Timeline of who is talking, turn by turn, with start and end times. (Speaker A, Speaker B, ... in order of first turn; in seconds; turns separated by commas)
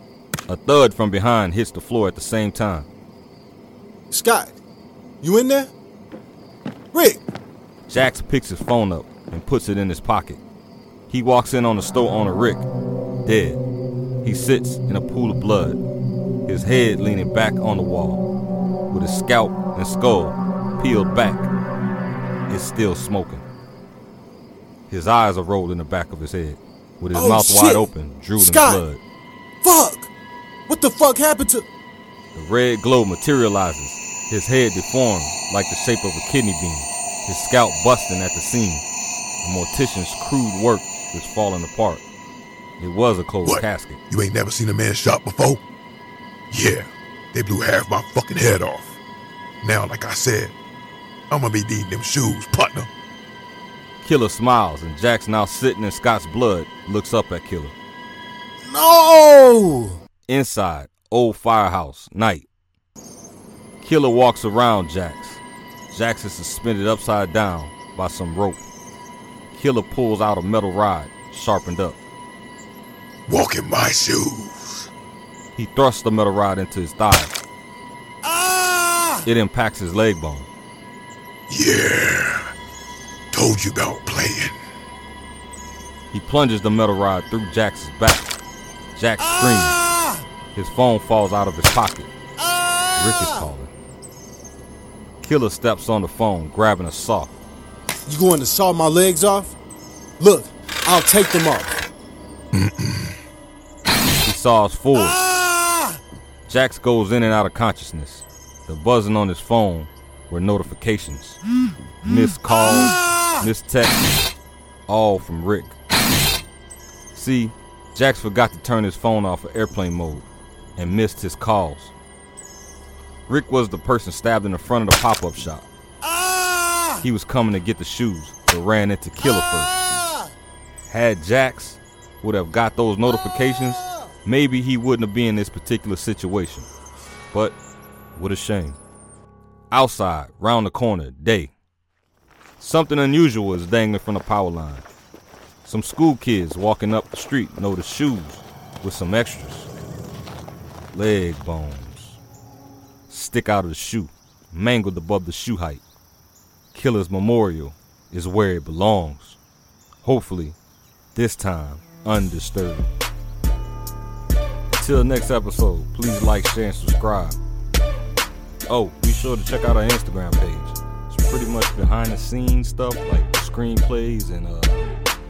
Speaker A: 0.5-2.9, Speaker B: 4.1-4.6, Speaker B: 5.2-5.7, Speaker B: 6.9-7.2, Speaker A: 7.9-10.4, Speaker A: 11.1-12.7, Speaker A: 13.2-13.6, Speaker A: 14.2-15.8, Speaker A: 16.4-18.2, Speaker A: 18.9-21.5, Speaker A: 22.5-23.4, Speaker A: 24.9-29.0, Speaker B: 27.1-28.8, Speaker B: 29.6-30.1, Speaker B: 30.7-31.7, Speaker A: 32.3-38.8, Speaker A: 39.4-42.0, Speaker A: 42.8-44.0, Speaker C: 43.4-45.6, Speaker C: 46.5-49.0, Speaker C: 49.6-50.5, Speaker C: 51.3-52.9, Speaker A: 54.0-57.7, Speaker B: 58.6-60.0, Speaker A: 60.3-62.5, Speaker A: 63.8-68.6, Speaker A: 69.5-72.0, Speaker C: 73.3-74.9, Speaker A: 75.5-77.3, Speaker A: 79.2-80.5, Speaker C: 81.5-82.5, Speaker C: 83.3-84.6, Speaker A: 86.1-88.3, Speaker A: 88.9-89.8, Speaker A: 90.5-92.1, Speaker A: 92.9-93.7, Speaker A: 95.2-97.3, Speaker B: 98.1-99.5, Speaker B: 100.2-101.8, Speaker C: 102.5-103.1, Speaker A: 104.2-105.2, Speaker A: 106.5-111.4, Speaker A: 112.0-114.2, Speaker A: 114.9-115.8, Speaker A: 117.1-121.9, Speaker A: 123.3-125.7, Speaker A: 127.0-129.8, Speaker A: 130.9-136.7, Speaker A: 138.1-138.8, Speaker A: 139.7-141.5, Speaker A: 142.6-144.8, Speaker A: 145.6-149.7, Speaker A: 150.9-152.2, Speaker A: 153.1-155.8, Speaker A: 156.7-159.4, Speaker A: 160.0-160.6, Speaker A: 161.1-162.9, Speaker A: 164.7-167.4, Speaker A: 168.7-174.9